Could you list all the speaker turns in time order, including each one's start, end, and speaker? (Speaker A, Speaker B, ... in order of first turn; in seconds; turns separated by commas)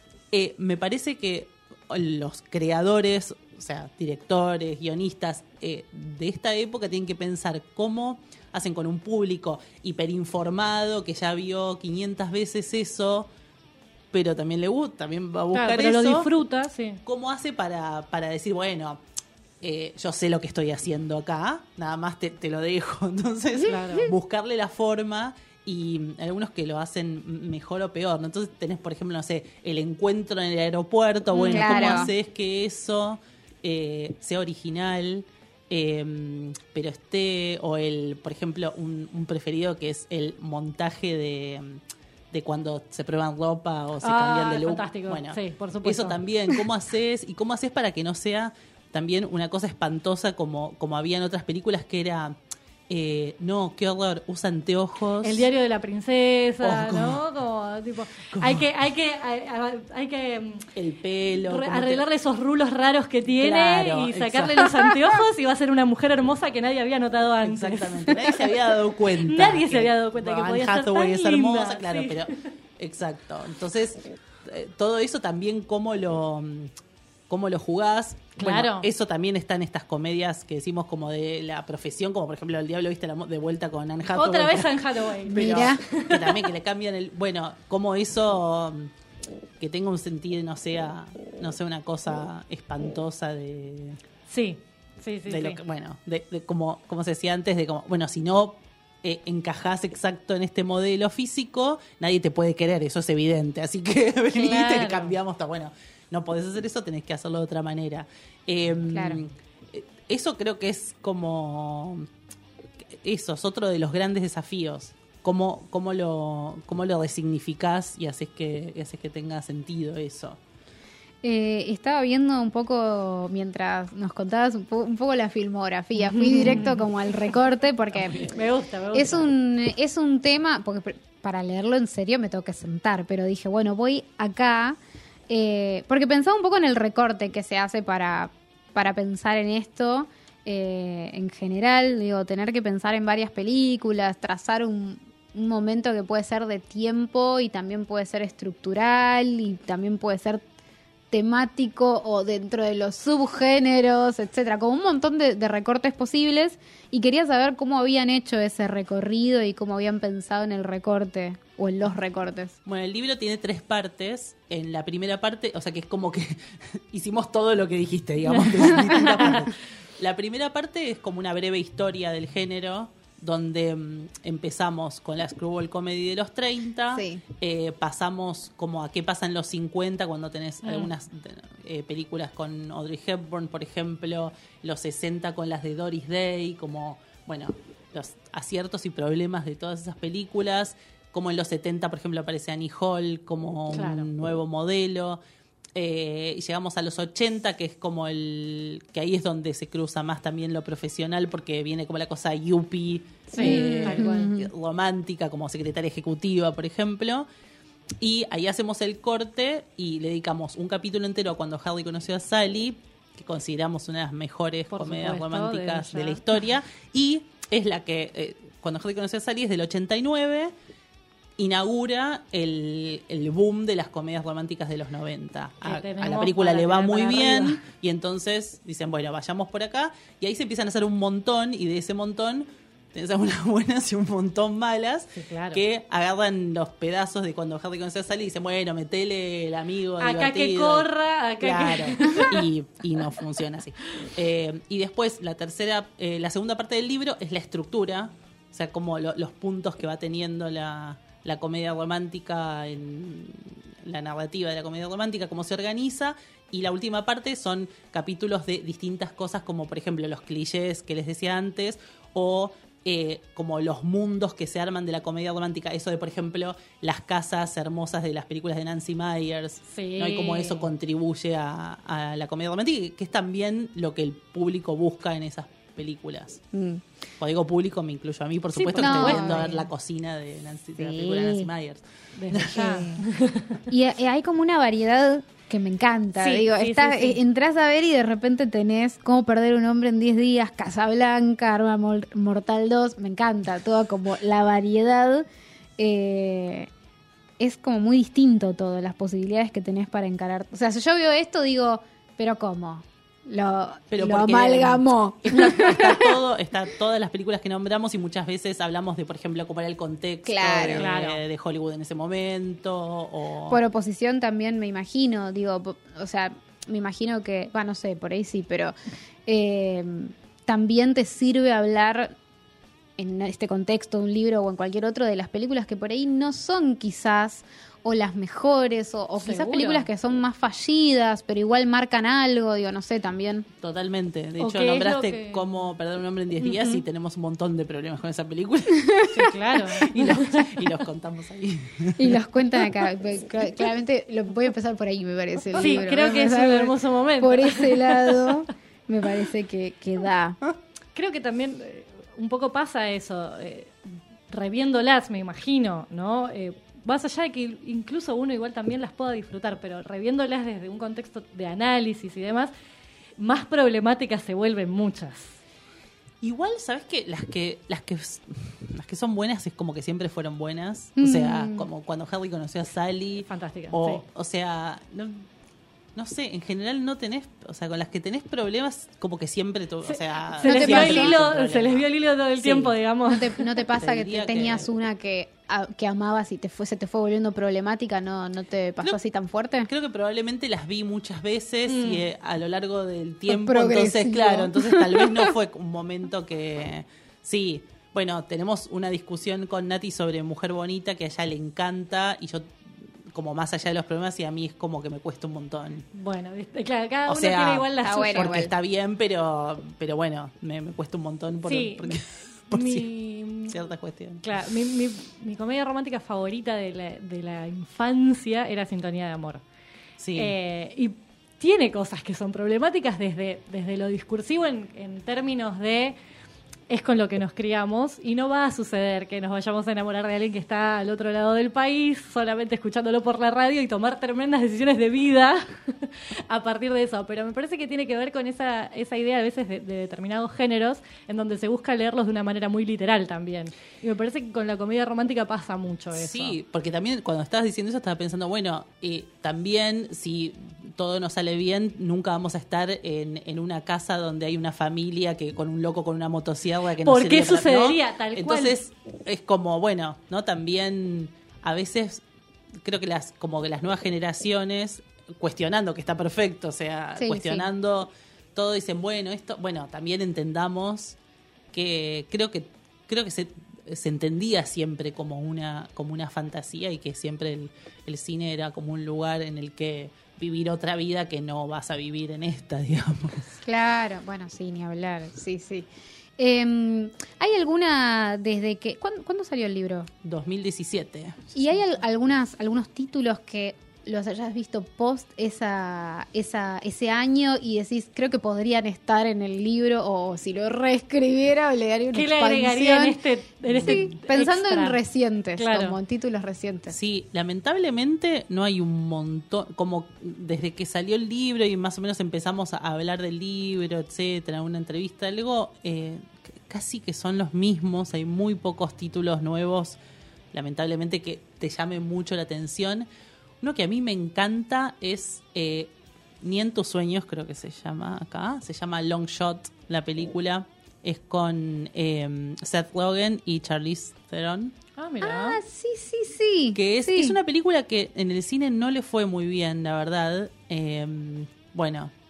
Speaker A: 0.3-13.3, Speaker A: 14.1-16.3, Speaker B: 15.5-17.0, Speaker A: 17.0-19.0, Speaker A: 19.6-52.4, Speaker B: 23.6-24.1, Speaker B: 31.3-32.1, Speaker C: 31.5-32.1, Speaker B: 44.0-46.6, Speaker A: 52.9-55.5, Speaker B: 55.2-60.7, Speaker A: 56.6-57.2, Speaker A: 58.3-58.7, Speaker A: 60.7-62.0, Speaker B: 61.4-68.5, Speaker A: 63.3-64.9, Speaker A: 67.4-76.7, Speaker B: 69.1-72.4, Speaker A: 77.3-88.9, Speaker B: 78.4-78.9, Speaker B: 84.1-86.5, Speaker C: 85.3-85.8, Speaker A: 89.6-94.0, Speaker B: 94.3-95.6, Speaker A: 95.3-112.0, Speaker B: 104.3-105.2, Speaker C: 108.9-109.2, Speaker A: 112.9-120.4, Speaker C: 121.2-128.3, Speaker B: 126.0-127.3, Speaker B: 128.2-129.3, Speaker C: 128.9-150.4, Speaker C: 151.1-162.6, Speaker A: 162.6-195.2, Speaker B: 168.4-169.5, Speaker C: 176.9-177.2, Speaker B: 180.6-180.9, Speaker B: 193.7-194.1, Speaker A: 195.8-207.3, Speaker B: 203.3-204.3, Speaker C: 203.4-204.5, Speaker A: 208.0-220.5, Speaker B: 214.7-216.3, Speaker A: 221.4-240.9, Speaker B: 225.6-227.6, Speaker B: 235.2-235.6, Speaker B: 240.0-242.4, Speaker A: 241.4-276.4, Speaker B: 269.7-270.7, Speaker C: 276.5-276.8, Speaker A: 277.2-282.6, Speaker B: 278.5-279.5, Speaker C: 278.8-279.6, Speaker C: 280.8-281.5, Speaker B: 282.1-283.6, Speaker C: 282.4-283.0, Speaker C: 283.7-295.2, Speaker B: 286.2-287.2, Speaker C: 295.8-296.7, Speaker C: 297.4-306.1, Speaker A: 303.9-313.6, Speaker C: 310.2-310.9, Speaker B: 310.8-311.2, Speaker C: 313.5-318.7, Speaker C: 319.2-322.1, Speaker C: 323.0-333.5, Speaker B: 329.2-329.9, Speaker A: 333.6-342.2, Speaker B: 334.4-335.4, Speaker B: 336.4-336.8, Speaker B: 339.1-340.6, Speaker C: 342.0-350.4, Speaker B: 345.6-348.4, Speaker B: 350.9-362.5, Speaker B: 363.2-365.4, Speaker A: 366.2-375.2, Speaker C: 371.0-371.6, Speaker B: 373.3-374.0, Speaker A: 375.9-381.9, Speaker B: 379.8-383.4, Speaker C: 380.4-381.1, Speaker A: 382.4-382.7, Speaker C: 383.1-389.7, Speaker A: 383.8-384.7, Speaker A: 389.7-402.5, Speaker B: 391.7-392.0, Speaker C: 393.3-395.3, Speaker A: 403.1-405.9, Speaker B: 405.9-408.4, Speaker A: 407.1-412.9, Speaker C: 407.8-408.5, Speaker B: 411.4-413.6, Speaker A: 413.5-414.2, Speaker B: 414.2-419.4, Speaker A: 420.0-420.4, Speaker B: 420.1-425.9, Speaker B: 426.7-446.4, Speaker A: 445.9-462.0, Speaker B: 456.8-458.6, Speaker A: 462.6-471.0, Speaker C: 467.0-467.5, Speaker A: 471.5-483.3, Speaker C: 483.4-489.9, Speaker A: 490.0-491.6, Speaker C: 491.3-503.0, Speaker B: 501.9-504.8, Speaker A: 503.5-503.8, Speaker C: 503.6-506.7, Speaker B: 505.4-505.8, Speaker A: 506.7-519.8, Speaker A: 520.3-522.9, Speaker A: 523.4-534.5, Speaker B: 534.8-535.4, Speaker C: 535.0-537.2, Speaker A: 536.5-541.9